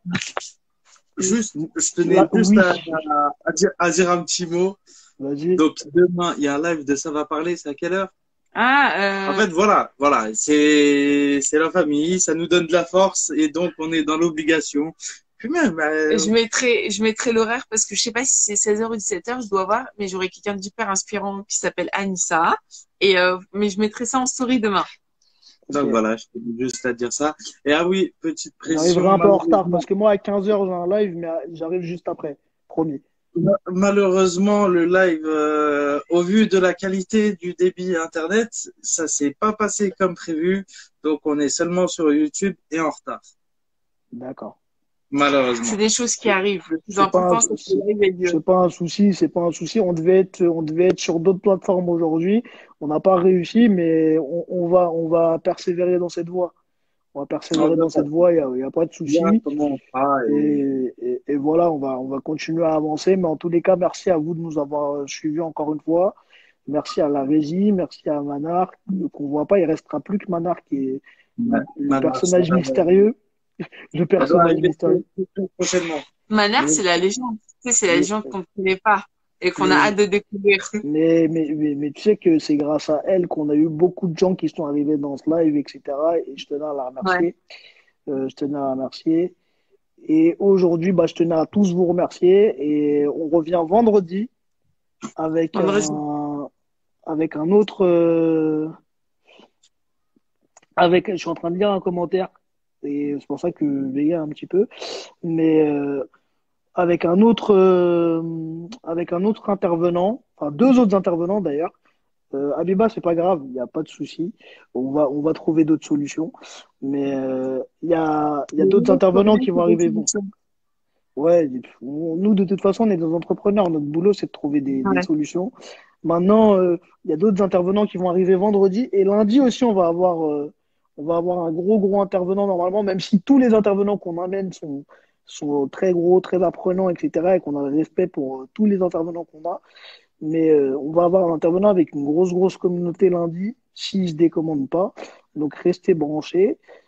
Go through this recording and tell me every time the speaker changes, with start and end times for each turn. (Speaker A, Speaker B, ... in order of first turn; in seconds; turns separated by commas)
Speaker A: 1.2-4.8, Speaker B: 2.0-2.8, Speaker B: 5.2-5.6, Speaker A: 5.6-8.1, Speaker C: 8.5-9.4, Speaker A: 9.2-16.3, Speaker C: 16.1-24.9, Speaker B: 25.7-26.0, Speaker A: 25.7-29.8, Speaker B: 28.6-33.0, Speaker A: 33.4-43.2, Speaker B: 44.1-44.5, Speaker A: 45.1-45.8, Speaker C: 45.6-48.4, Speaker B: 46.9-56.5, Speaker B: 57.1-59.4, Speaker A: 57.5-58.1, Speaker A: 59.1-60.6, Speaker B: 60.3-71.0, Speaker A: 71.4-72.9, Speaker B: 71.5-73.2, Speaker B: 73.9-75.0, Speaker A: 74.2-76.0, Speaker C: 76.3-80.8, Speaker B: 76.6-76.8, Speaker B: 79.6-79.9, Speaker B: 80.8-87.3, Speaker B: 88.1-89.3, Speaker B: 90.0-94.3, Speaker B: 95.2-96.5, Speaker C: 95.5-96.0, Speaker B: 97.1-98.7, Speaker B: 100.8-102.3, Speaker B: 102.8-104.7, Speaker B: 105.2-106.0, Speaker B: 106.8-111.7, Speaker B: 112.3-116.3, Speaker B: 116.8-120.1, Speaker C: 118.6-120.2, Speaker B: 121.2-125.5, Speaker B: 126.0-139.6, Speaker B: 140.2-146.6